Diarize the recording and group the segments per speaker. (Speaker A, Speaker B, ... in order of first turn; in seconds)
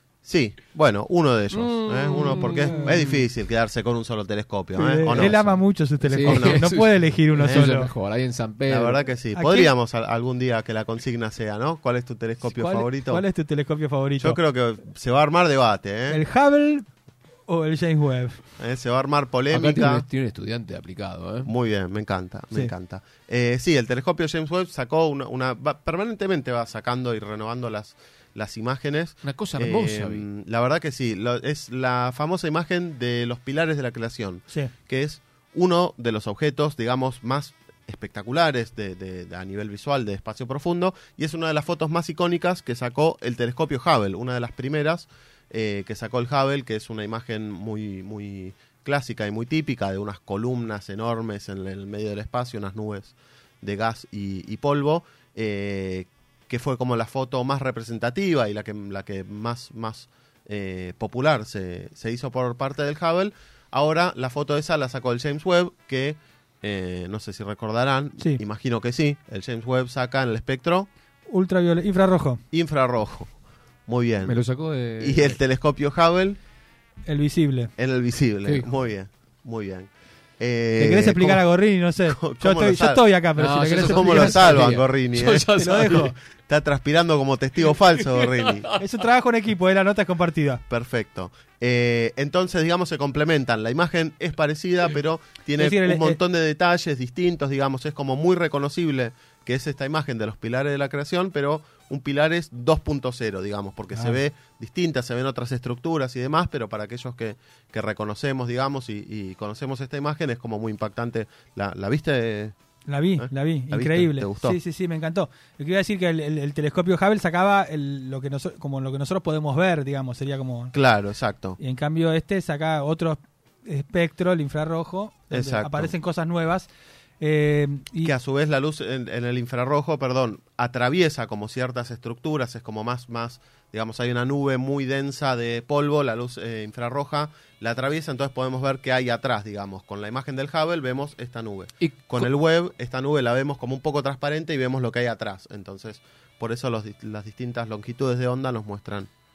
Speaker A: 0.2-5.5, 6.2-6.7, 7.4-7.7, 8.7-13.2, 14.2-16.2, 18.6-20.1, 21.4-70.9, 72.5-73.3, 73.9-74.4, 75.0-76.4, 77.8-81.5, 82.0-83.0, 83.8-88.7, 90.7-112.5, 113.2-114.6, 120.7-121.6, 125.3-125.9, 128.0-149.1
Speaker B: 1.5-3.2, 5.1-9.0, 19.5-21.5, 29.2-30.2, 74.2-75.4, 83.3-86.1, 88.0-88.8, 141.8-142.3
Speaker C: 2.4-3.0, 4.8-7.9, 9.3-9.7, 12.4-14.4, 16.1-16.9, 17.5-18.4, 71.3-72.4, 77.0-77.7, 80.8-84.8, 85.6-86.1, 88.8-90.6, 95.6-96.2, 103.9-104.2, 112.9-120.7, 121.6-126.7, 127.2-128.1